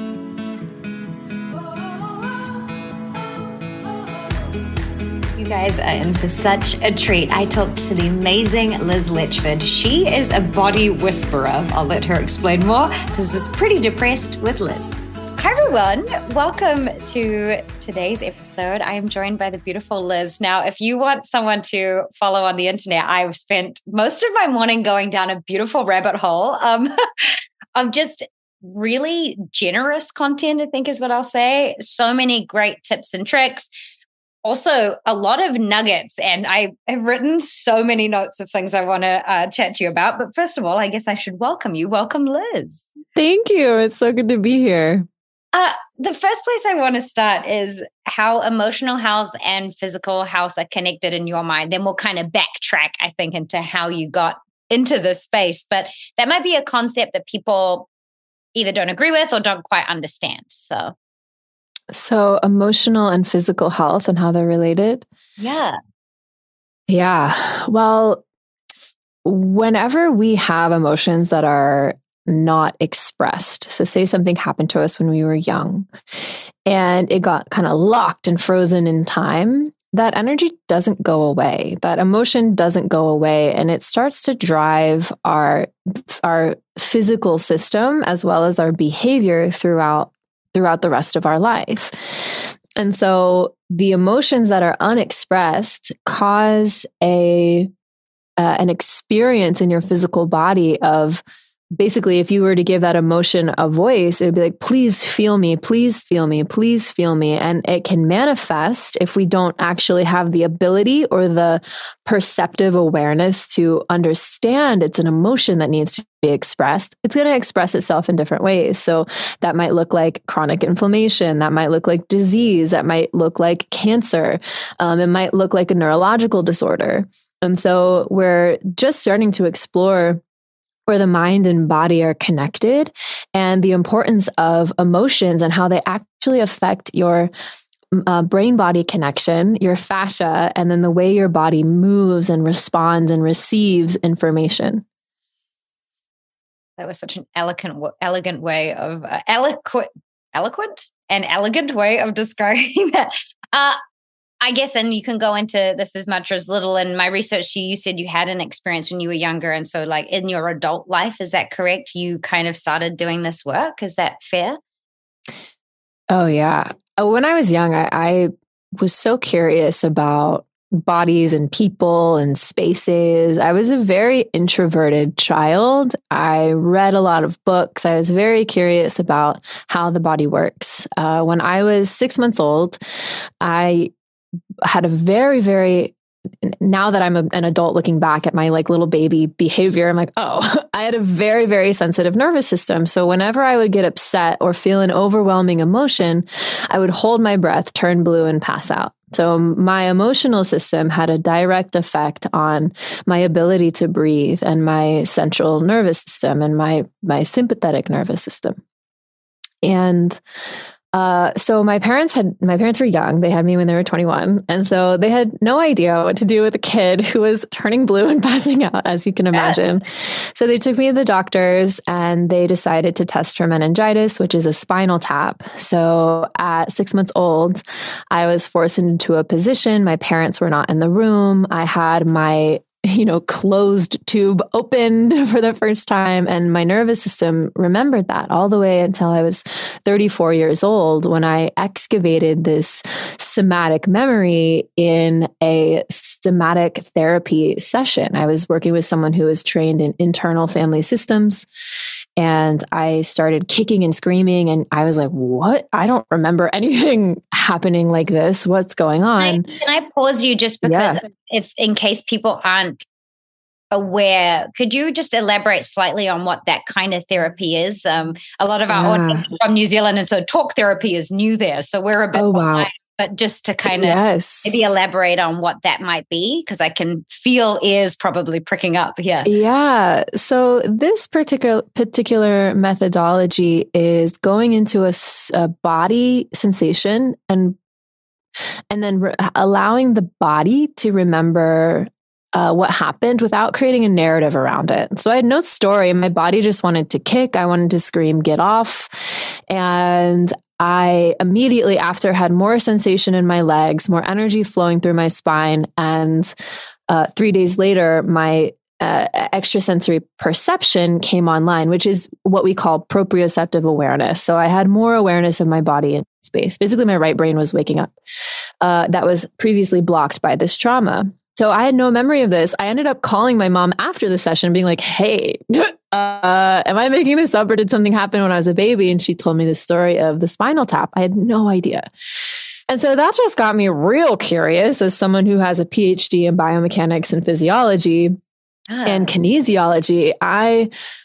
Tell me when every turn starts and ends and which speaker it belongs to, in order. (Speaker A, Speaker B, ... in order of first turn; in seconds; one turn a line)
Speaker A: 5.3-33.7
Speaker A: 34.4-42.9
Speaker B: 43.1-45.1
Speaker A: 45.5-57.9
Speaker A: 58.5-60.9
Speaker B: 61.9-65.0
Speaker A: 65.4-65.8
Speaker B: 66.9-68.2
Speaker B: 69.2-75.9
Speaker B: 76.6-97.7
Speaker B: 98.4-101.2
Speaker B: 101.8-130.2
Speaker B: 130.9-137.3
Speaker B: 137.9-144.8
Speaker A: 146.8-153.8
Speaker A: 154.4-164.6
Speaker B: 166.1-182.8
Speaker B: 183.4-183.9
Speaker B: 184.6-208.6
Speaker B: 209.6-210.2
Speaker B: 210.9-251.5
Speaker B: 252.2-259.5
Speaker A: 259.2-262.8
Speaker B: 260.6-261.0
Speaker A: 263.7-279.3
Speaker B: 268.7-269.3
Speaker B: 272.1-272.7
Speaker B: 273.6-274.5
Speaker B: 279.2-287.6
Speaker B: 288.7-306.3
Speaker B: 306.9-317.9
Speaker B: 318.6-331.9
Speaker B: 332.7-338.2
Speaker A: 338.7-339.1
Speaker B: 338.8-340.7